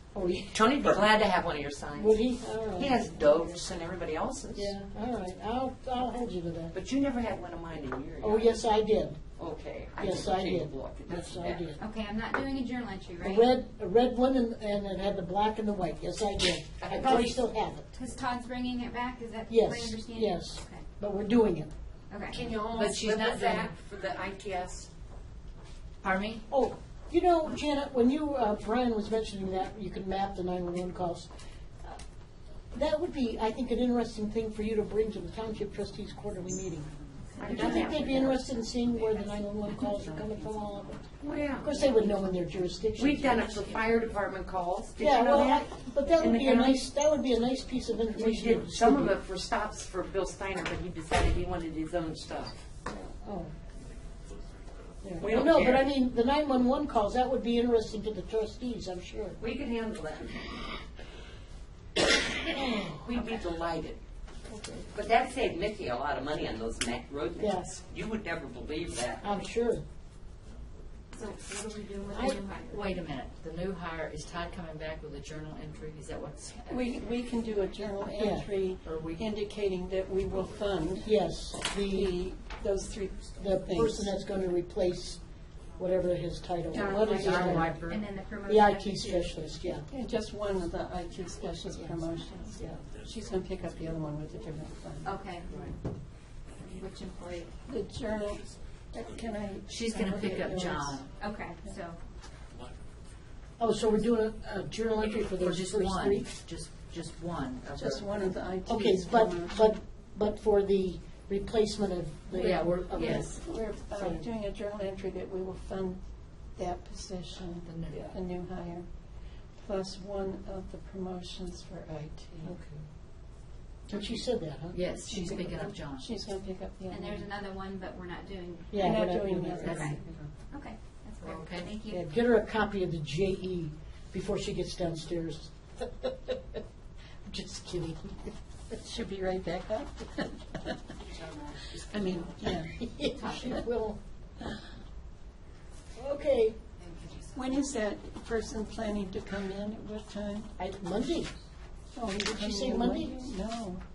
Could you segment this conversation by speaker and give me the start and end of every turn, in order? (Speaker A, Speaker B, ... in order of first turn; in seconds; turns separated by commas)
Speaker A: 0.1-0.8, Speaker B: 0.5-2.2, Speaker A: 2.0-3.0, Speaker B: 2.8-4.7, Speaker A: 4.5-6.7, Speaker B: 6.7-8.6, Speaker A: 8.2-9.2, Speaker B: 9.4-11.8, Speaker A: 10.0-11.8, Speaker C: 11.8-13.5, Speaker A: 13.2-17.9, Speaker B: 16.8-17.4, Speaker C: 17.9-20.9, Speaker A: 19.5-21.7, Speaker C: 22.1-22.5, Speaker B: 22.3-24.9, Speaker D: 22.7-23.7, Speaker D: 26.0-26.4, Speaker A: 26.5-31.3, Speaker A: 32.7-36.9, Speaker D: 36.6-44.0, Speaker B: 37.4-38.4, Speaker C: 37.4-37.9, Speaker A: 37.4-41.0, Speaker B: 41.2-41.8, Speaker A: 41.6-43.5, Speaker B: 43.0-46.8, Speaker A: 45.0-49.2, Speaker B: 48.1-52.6, Speaker A: 52.9-53.5, Speaker A: 55.0-59.4, Speaker B: 55.2-55.9, Speaker B: 59.4-60.5, Speaker B: 62.5-64.0, Speaker E: 64.5-64.9, Speaker B: 64.9-69.4, Speaker A: 67.4-67.7, Speaker A: 69.2-69.8, Speaker C: 71.1-73.1, Speaker A: 72.1-72.4, Speaker D: 72.7-76.9, Speaker E: 76.7-81.2, Speaker A: 78.2-78.5, Speaker D: 78.8-79.3, Speaker A: 81.0-82.2, Speaker E: 81.9-84.2, Speaker A: 83.4-85.2, Speaker A: 85.8-87.8, Speaker D: 86.7-88.0, Speaker C: 86.7-89.7, Speaker A: 88.5-89.9, Speaker E: 89.9-95.2, Speaker C: 92.0-92.5, Speaker C: 95.0-95.7, Speaker D: 95.5-95.8, Speaker C: 96.6-97.5, Speaker E: 97.7-101.0, Speaker D: 99.7-101.1, Speaker C: 101.0-102.0, Speaker A: 103.6-106.3, Speaker D: 105.4-108.4, Speaker E: 107.8-109.8, Speaker A: 108.7-113.4, Speaker D: 112.3-113.4, Speaker E: 112.3-116.0, Speaker A: 113.9-114.2, Speaker E: 116.5-118.9, Speaker D: 117.6-118.2, Speaker E: 119.6-122.6, Speaker A: 123.9-124.8, Speaker D: 124.7-126.2, Speaker E: 125.0-127.3, Speaker C: 126.9-128.9, Speaker A: 128.7-129.9, Speaker E: 128.8-130.2, Speaker D: 129.5-130.3, Speaker C: 129.7-132.0, Speaker D: 131.2-131.8, Speaker A: 131.9-136.6, Speaker A: 137.3-138.3, Speaker E: 138.7-140.8, Speaker D: 141.1-142.2, Speaker E: 141.7-142.7, Speaker A: 142.4-144.0, Speaker D: 143.2-143.6, Speaker A: 146.0-146.6, Speaker D: 146.8-147.7, Speaker E: 147.3-150.5, Speaker A: 150.6-151.3, Speaker E: 151.9-153.8, Speaker A: 152.2-153.3